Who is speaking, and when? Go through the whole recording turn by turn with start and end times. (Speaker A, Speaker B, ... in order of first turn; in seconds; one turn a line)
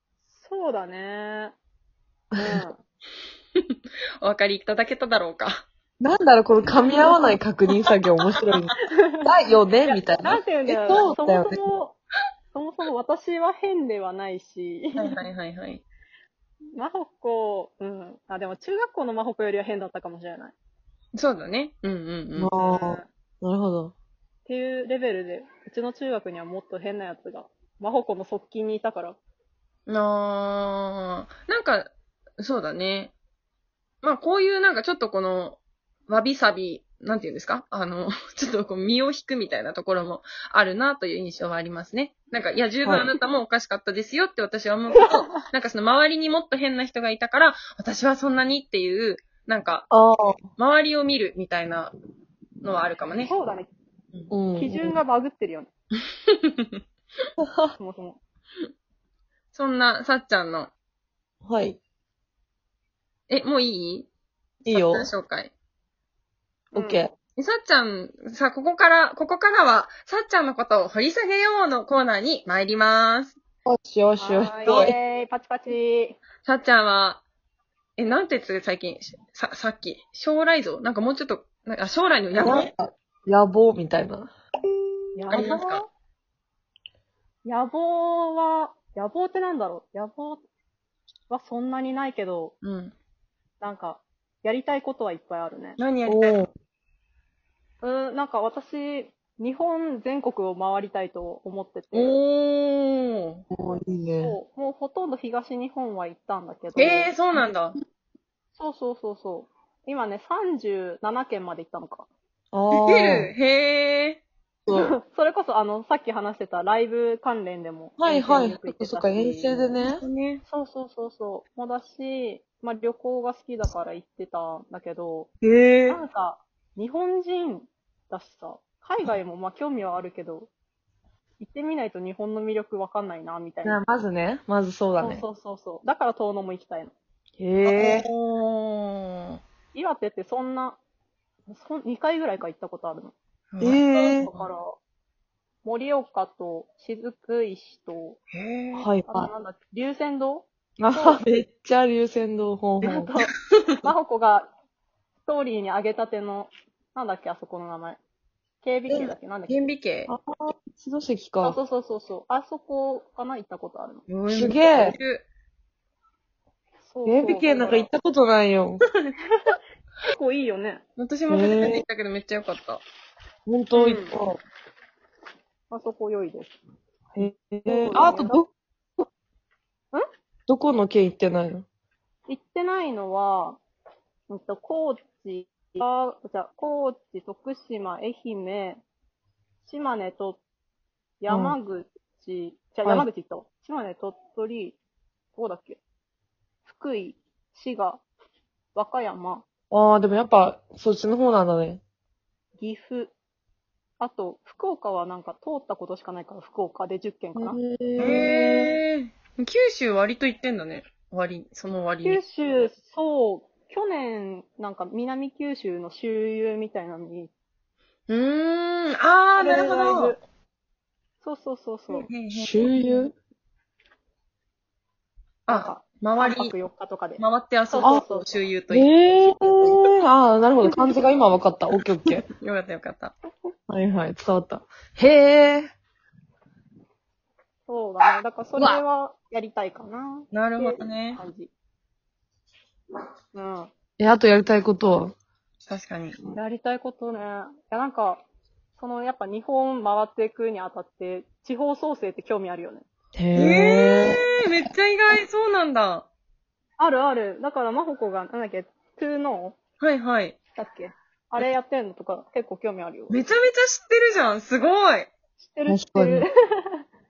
Speaker A: 0.3-1.6
Speaker B: 2.3-2.6
Speaker A: 2.4-2.8
Speaker C: 4.2-5.7
Speaker B: 6.0-11.6
Speaker A: 8.8-9.3
Speaker A: 9.8-11.9
Speaker A: 12.5-15.2
Speaker C: 15.0-15.8
Speaker A: 16.8-20.6
Speaker C: 21.1-22.6
Speaker B: 22.4-23.9
Speaker A: 22.6-23.1
Speaker A: 24.4-29.2
Speaker C: 29.9-33.1
Speaker C: 34.0-49.9
Speaker B: 49.9-50.4
Speaker C: 50.6-51.9
Speaker C: 52.6-53.3
Speaker A: 53.2-53.7
Speaker B: 54.3-55.0
Speaker A: 54.5-55.7
Speaker B: 57.4-57.7
Speaker A: 57.8-58.2
Speaker C: 59.5-60.7
Speaker B: 61.4-61.8
Speaker C: 63.3-64.1
Speaker B: 64.6-65.1
Speaker C: 64.7-65.5
Speaker A: 66.7-67.0
Speaker B: 66.7-67.1
Speaker C: 67.4-73.3
Speaker B: 73.6-74.9
Speaker A: 74.2-76.2
Speaker C: 74.7-74.9
Speaker C: 76.4-77.2
Speaker C: 78.0-82.7
Speaker B: 82.3-84.3
Speaker A: 85.2-85.9
Speaker B: 85.3-85.6
Speaker C: 85.3-85.8
Speaker A: 87.4-90.4
Speaker A: 91.3-92.5
Speaker C: 92.6-92.9
Speaker A: 93.6-95.8
Speaker C: 95.8-96.4
Speaker B: 96.1-96.5
Speaker A: 97.8-102.2
Speaker C: 101.9-103.4
Speaker B: 103.5-104.3
Speaker A: 104.2-107.1
Speaker C: 106.8-107.8
Speaker A: 108.6-112.1
Speaker B: 112.5-113.3
Speaker C: 112.8-114.2
Speaker B: 114.7-114.9
Speaker A: 114.7-119.8
Speaker B: 118.0-120.0
Speaker C: 120.0-120.4
Speaker A: 120.5-125.3
Speaker B: 125.4-126.0
Speaker A: 125.9-130.5
Speaker A: 131.4-133.8
Speaker B: 133.6-135.2
Speaker A: 135.0-136.9
Speaker B: 137.4-138.1
Speaker C: 137.6-139.4
Speaker A: 139.7-140.8
Speaker A: 141.5-143.2
Speaker C: 143.5-144.5
Speaker B: 143.6-144.3
Speaker A: 143.9-144.8
Speaker A: 145.6-148.2
Speaker C: 148.3-148.9
Speaker B: 148.8-149.3
Speaker A: 149.1-151.2
Speaker B: 150.8-153.1
Speaker A: 152.8-153.3
Speaker A: 153.8-154.5
Speaker A: 155.2-158.0
Speaker A: 158.6-159.7
Speaker B: 158.9-159.1
Speaker C: 159.5-160.1
Speaker B: 160.1-161.6
Speaker A: 161.4-164.1
Speaker C: 164.1-165.3
Speaker B: 164.3-164.9
Speaker A: 166.8-167.9
Speaker B: 167.1-168.8
Speaker A: 170.0-170.8
Speaker C: 171.0-172.8
Speaker B: 171.3-171.8
Speaker B: 173.5-174.4
Speaker A: 173.7-174.2
Speaker A: 175.7-176.5
Speaker B: 177.2-178.5
Speaker A: 177.7-178.4
Speaker B: 180.5-181.7
Speaker A: 182.3-183.6
Speaker A: 184.3-188.8
Speaker A: 189.7-190.4
Speaker A: 191.2-194.8
Speaker B: 191.3-191.6
Speaker A: 195.3-195.8
Speaker A: 196.7-198.0
Speaker A: 198.7-199.4
Speaker B: 199.7-201.8
Speaker A: 202.6-203.1
Speaker A: 204.0-207.6
Speaker B: 207.3-208.7
Speaker C: 208.0-212.2
Speaker A: 212.0-217.3
Speaker C: 218.1-220.2
Speaker A: 219.4-220.2
Speaker A: 221.2-222.1
Speaker C: 221.9-222.7
Speaker B: 222.3-223.1
Speaker C: 225.5-226.6
Speaker A: 225.5-228.4
Speaker C: 227.2-229.7
Speaker B: 228.7-232.2
Speaker C: 232.3-233.2
Speaker B: 233.7-235.7
Speaker A: 237.7-241.5
Speaker C: 240.3-241.2
Speaker A: 243.3-243.7
Speaker B: 244.0-245.1
Speaker C: 245.7-246.2
Speaker A: 246.3-248.2
Speaker A: 248.8-252.8
Speaker B: 253.1-254.2
Speaker C: 253.3-256.1
Speaker A: 256.8-259.6
Speaker C: 259.8-260.4
Speaker A: 260.6-263.2
Speaker C: 263.1-265.1
Speaker A: 265.4-266.8
Speaker B: 265.7-266.2